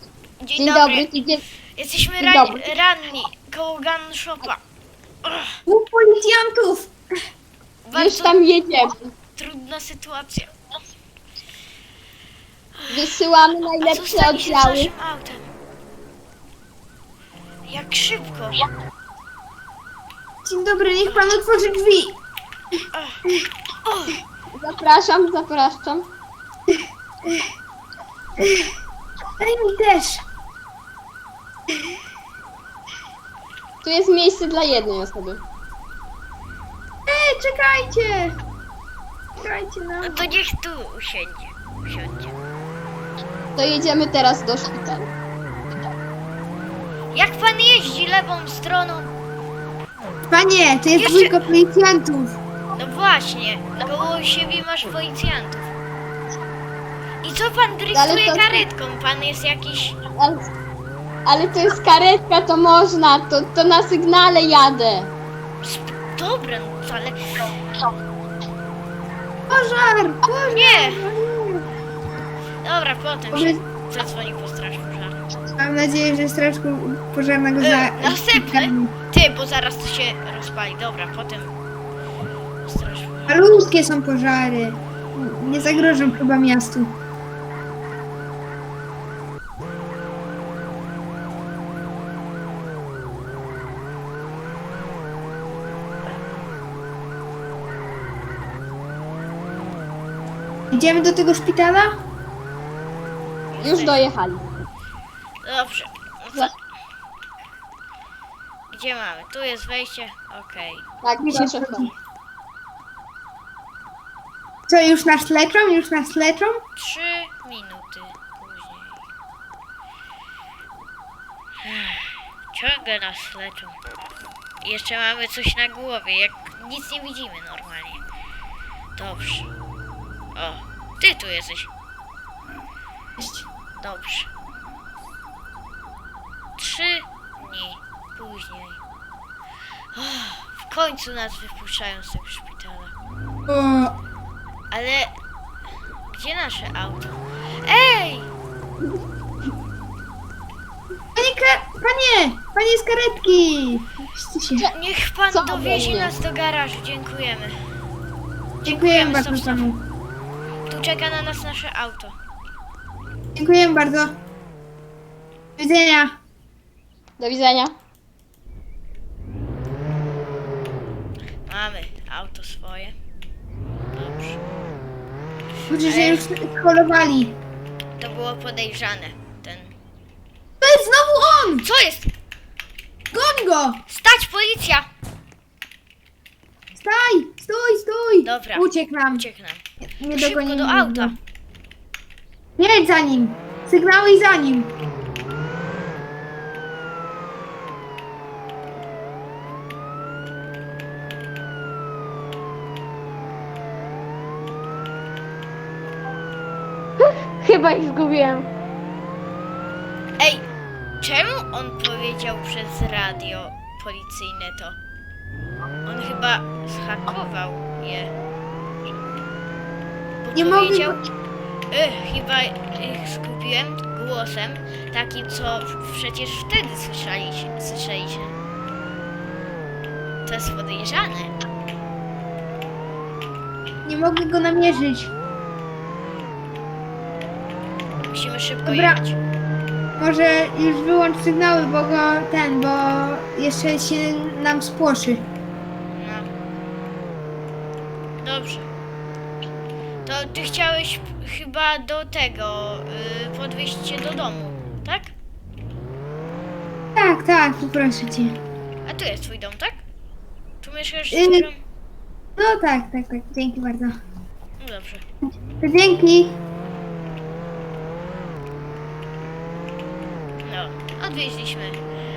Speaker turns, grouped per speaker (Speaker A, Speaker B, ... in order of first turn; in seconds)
Speaker A: 0.4-1.1, 1.8-4.6, 5.2-5.6, 7.8-8.4, 9.3-10.5, 12.8-13.1, 13.8-15.5, 17.7-18.6, 21.1-21.3, 22.9-23.2, 23.8-24.2, 40.0-42.3, 47.1-49.1, 50.9-51.3, 52.7-55.7, 57.2-60.0, 65.6-67.2, 70.4-71.0, 72.6-75.2, 77.6-81.5, 82.6-83.4, 103.5-104.0, 105.4-106.5, 108.7-110.8, 116.8-119.0, 121.6-123.8, 124.6-128.0, 128.9-129.5, 130.3-131.7, 133.8-134.3, 136.6-138.8, 139.9-142.9, 144.7-145.1, 146.1-148.3, 154.5-157.6, 158.6-159.7, 160.7-162.1, 171.4-172.9, 173.9-174.4, 175.8-176.3, 178.0-179.7, 181.6-182.1, 183.9-184.9, 188.2-191.1, 210.2-210.5, 211.0-214.8, 215.8-218.1, 220.2-220.9, 221.7-228.3, 230.2-231.3, 238.1-239.2, 245.9-246.3, 248.2-248.7, 250.0-255.1, 258.9-259.8, 260.6-261.6, 264.6-265.0, 270.4-271.8
Speaker B: 0.6-1.4, 2.2-2.7, 7.9-9.1, 12.9-14.9, 24.6-26.1, 33.8-35.4, 43.5-45.1, 57.9-58.7, 60.2-60.5, 61.2-65.1, 103.6-104.5, 111.0-111.9, 155.3-156.1, 167.2-167.7, 207.0-208.5
Speaker C: 5.7-6.9, 20.4-22.2, 28.4-28.7, 29.4-30.2, 37.0-38.4, 39.4-40.2, 50.3-52.4, 69.5-71.6, 73.3-73.6, 75.6-78.9, 83.3-86.9, 100.7-101.9, 111.2-111.9, 114.7-116.6, 133.2-133.4, 143.5-143.9, 151.1-154.7, 158.7-159.8, 163.3-164.1, 165.6-166.1, 175.7-177.3, 180.6-181.7, 183.1-183.8, 186.8-189.2, 190.0-191.2, 192.6-194.7, 220.3-221.0, 233.8-235.1, 238.6-239.0, 240.0-245.2, 256.9-258.4, 261.1-261.5, 262.4-263.9, 265.5-266.4